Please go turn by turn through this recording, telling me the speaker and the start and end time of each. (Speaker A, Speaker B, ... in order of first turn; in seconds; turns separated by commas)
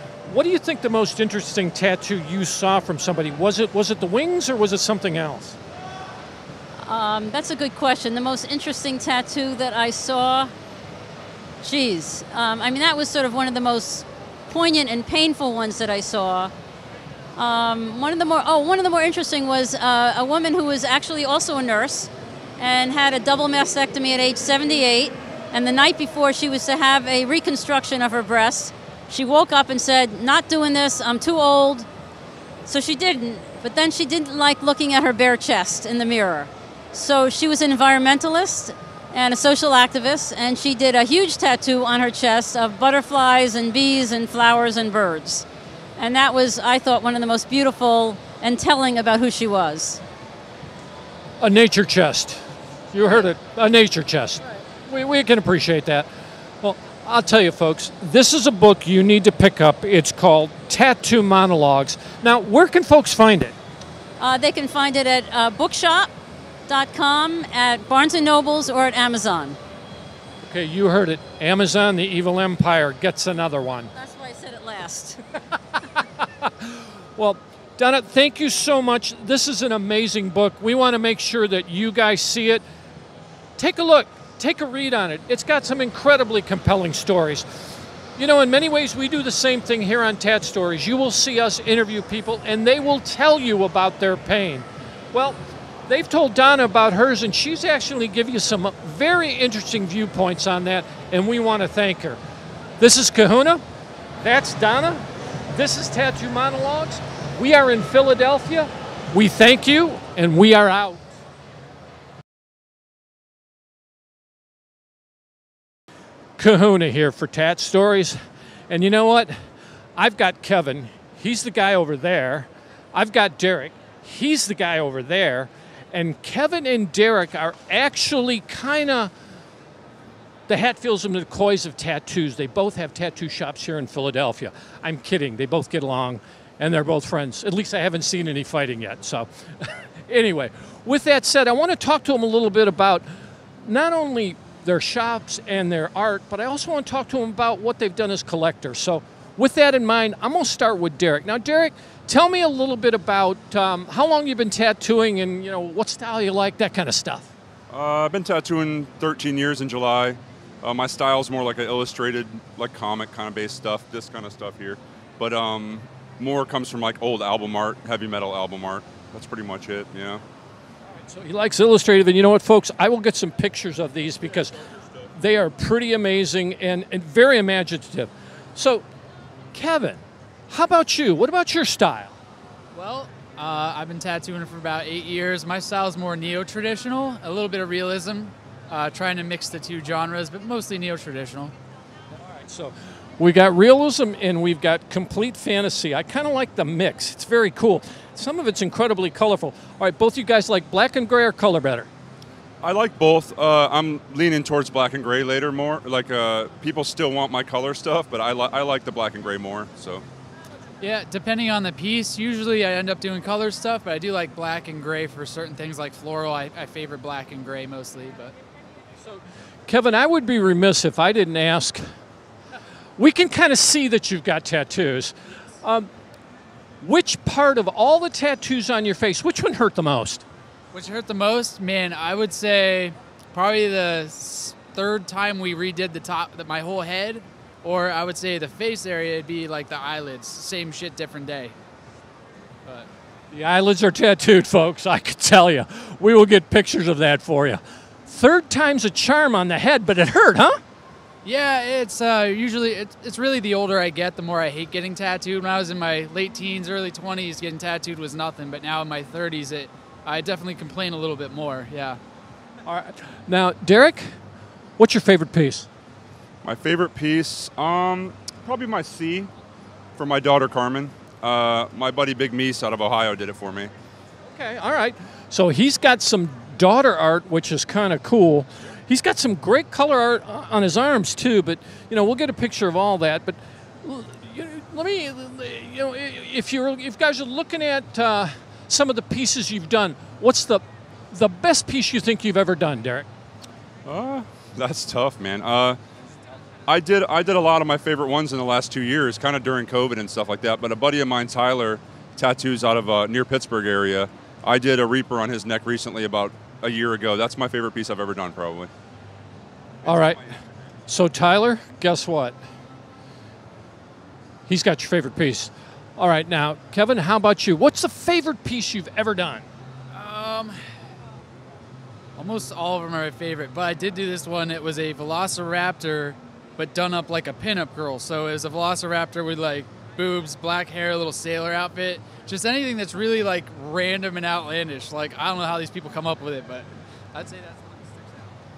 Speaker A: 0.2-5.6, Speaker B: 6.8-10.5, Speaker B: 11.6-16.5, Speaker B: 17.4-31.9, Speaker B: 32.6-45.5, Speaker B: 46.0-50.0, Speaker A: 51.4-52.4, Speaker A: 52.9-56.1, Speaker A: 56.6-63.5, Speaker B: 64.2-66.1, Speaker B: 66.7-69.6, Speaker A: 70.5-73.9, Speaker B: 73.9-75.2, Speaker A: 76.4-82.6, Speaker A: 83.6-87.5, Speaker A: 88.2-102.2, Speaker A: 102.8-103.6, Speaker A: 104.2-111.0, Speaker A: 116.4-118.2, Speaker A: 118.7-119.3, Speaker A: 120.0-129.1, Speaker A: 130.5-143.1, Speaker A: 143.6-157.3, Speaker C: 157.7-170.2, Speaker A: 171.1-174.6, Speaker A: 175.2-178.8, Speaker A: 179.5-182.2, Speaker D: 182.7-191.5, Speaker A: 192.3-201.9, Speaker C: 202.6-210.0, Speaker D: 210.8-218.3, Speaker A: 219.0-221.9, Speaker A: 223.0-225.9, Speaker A: 226.8-230.2, Speaker D: 230.7-241.6, Speaker A: 243.3-250.6, Speaker D: 251.2-262.0, Speaker A: 262.6-264.1, Speaker A: 264.8-265.7, Speaker C: 266.4-269.3, Speaker C: 269.9-273.7, Speaker A: 274.3-293.1, Speaker C: 293.9-295.8, Speaker C: 296.7-308.7, Speaker A: 309.8-310.2, Speaker C: 309.8-310.4, Speaker A: 310.9-312.4, Speaker A: 314.5-319.4, Speaker D: 319.9-320.6, Speaker D: 322.1-338.3